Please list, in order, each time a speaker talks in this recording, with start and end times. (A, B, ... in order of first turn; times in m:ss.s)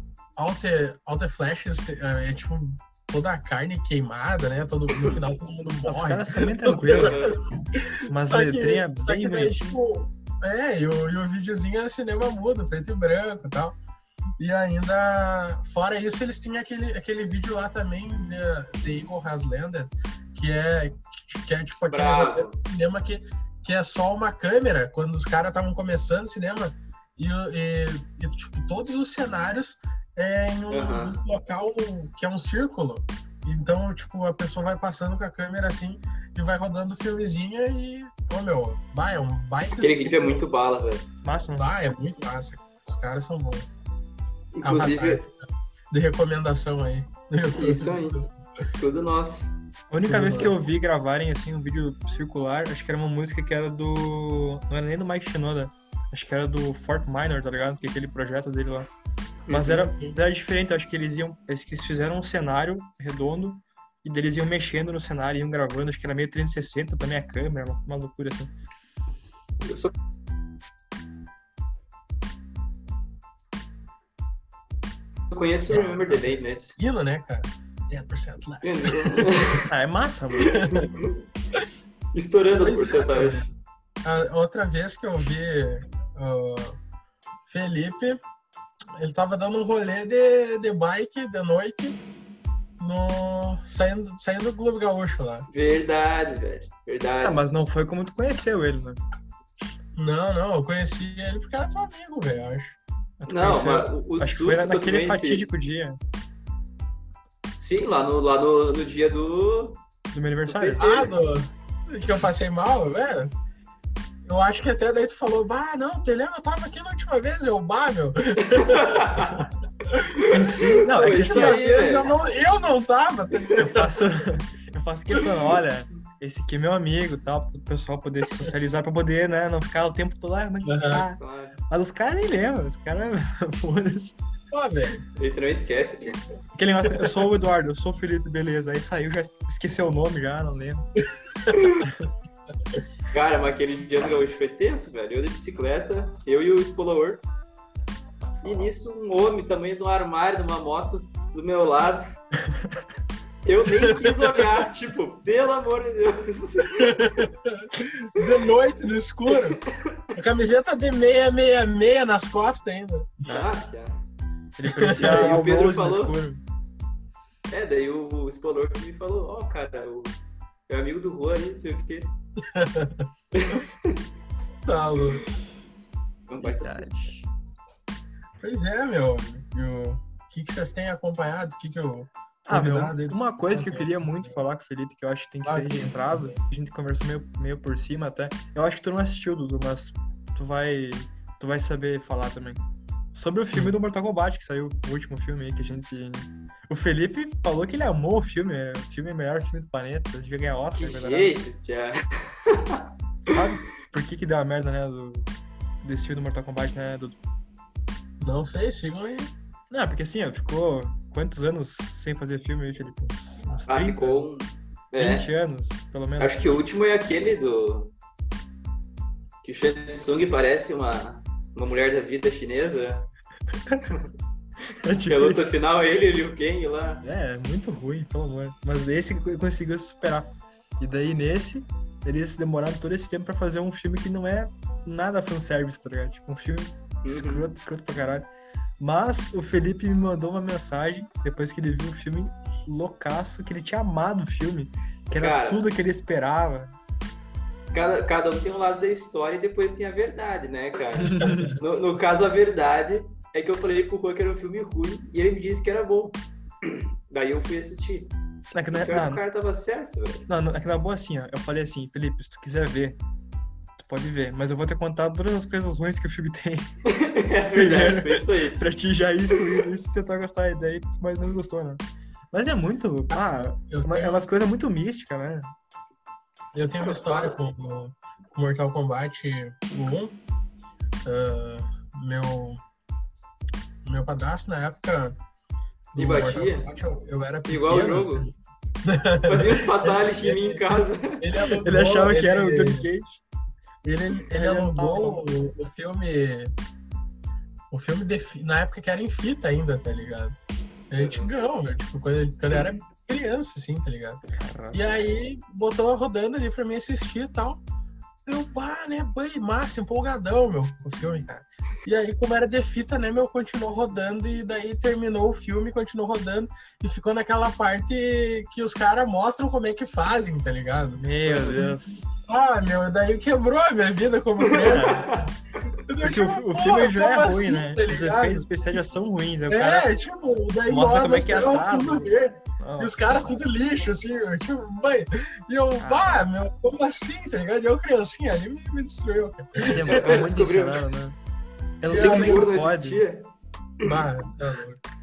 0:00.4-0:13.8 A
0:05.8-0:07.2 B
0:06.9-0:07.4 C
0:08.1-0:09.8 B
0:14.4-0:40.5 A
0:21.9-0:22.6 C
0:30.7-0:31.2 C
0:39.8-0:41.1 C
0:41.2-0:41.7 B
0:41.6-0:43.7 A
0:44.6-0:45.2 C
0:44.6-0:45.4 A
0:45.9-0:48.3 A
0:47.6-0:48.2 C
0:48.8-0:49.5 C
0:49.9-0:58.9 B
0:50.1-0:50.6 A
0:59.5-0:59.8 C
0:59.5-1:08.5 B
0:59.7-1:00.2 A
1:15.3-1:16.8 C
1:15.7-1:16.4 B
1:16.8-1:19.6 A
1:18.6-1:19.6 C
1:19.6-1:20.6 B
1:20.5-1:21.2 C
1:22.1-1:23.4 C
1:22.5-1:23.5 A
1:24.0-1:26.8 A
1:27.5-1:28.2 A
1:29.0-1:32.0 A
1:32.8-1:35.5 A
1:35.5-1:37.4 C
1:37.2-1:39.0 B
1:40.0-1:42.8 A
1:43.2-1:46.0 B
1:43.3-1:45.5 C
1:47.6-1:49.8 C
1:50.1-1:51.0 B
1:50.5-1:51.1 C
1:50.8-1:53.3 A
1:54.3-1:59.3 A
1:58.5-1:59.3 C
2:00.3-2:01.6 B
2:00.9-2:02.1 C
2:01.0-2:04.0 A
2:03.6-2:14.2 B
2:10.6-2:11.0 A
2:11.2-2:11.6 C
2:14.5-2:15.0 A
2:15.2-2:16.2 C
2:16.6-2:20.9 B
2:23.1-2:27.2 C
2:28.4-2:32.2 C
2:33.4-2:37.0 C
2:36.8-2:39.6 A
2:40.2-2:43.5 A
2:43.3-2:44.0 C
2:44.6-2:46.4 B
2:44.6-2:45.3 A
2:45.0-2:46.2 C
2:47.5-2:50.2 C
2:50.7-2:52.1 C
2:52.5-2:53.1 A
2:53.3-2:54.0 C
2:54.7-2:55.2 A
2:56.3-2:57.0 C
2:56.4-2:57.3 B
2:58.4-3:04.5 A
3:02.5-3:12.6 B
3:05.4-3:06.4 A
3:13.1-3:21.4 B
3:20.8-3:22.8 C
3:23.3-3:25.3 B
3:25.8-3:27.2 B
3:28.2-3:29.3 A
3:29.7-3:34.2 B
3:33.7-3:35.3 C
3:35.0-3:36.6 B
3:36.2-3:37.9 C
3:39.4-3:43.1 C
3:44.8-3:45.5 B
3:45.1-3:47.0 C
3:47.0-3:58.3 B
3:57.0-3:57.5 C
3:58.8-4:06.7 B
4:05.2-4:05.7 C
4:07.7-4:18.1 C
4:11.0-4:11.6 B
4:18.5-4:19.2 B
4:18.7-4:20.3 C
4:20.3-4:23.0 B
4:23.8-4:26.7 B
4:27.0-4:28.6 C
4:27.5-4:35.5 B
4:33.1-4:34.2 A
4:36.5-4:40.2 A
4:36.8-4:37.4 C
4:41.0-4:42.6 A
4:43.8-4:45.2 A
4:46.0-4:48.3 A
4:46.0-4:46.7 C
4:47.5-4:48.3 C
4:48.8-4:50.6 A
4:49.2-4:51.2 C
4:51.2-4:52.9 A
4:51.4-4:53.2 B
4:53.8-4:56.5 A
4:54.3-4:55.2 B
4:57.7-5:00.4 A
5:00.9-5:04.2 A
5:01.0-5:01.3 C
5:04.3-5:05.1 B
5:04.7-5:07.6 A
5:08.3-5:21.7 A
5:21.0-5:22.0 B
5:21.2-5:21.6 C
5:22.3-5:25.3 A
5:24.4-5:25.3 C
5:24.7-5:25.0 B
5:25.9-5:28.5 A
5:26.0-5:29.9 B
5:29.5-5:39.9 A
5:30.7-5:33.0 B
5:35.8-5:36.2 B
5:39.7-5:41.2 B
5:39.9-5:40.9 C
5:41.8-5:43.0 B
5:41.8-5:42.5 A
5:41.8-5:43.3 C
5:43.8-5:44.8 A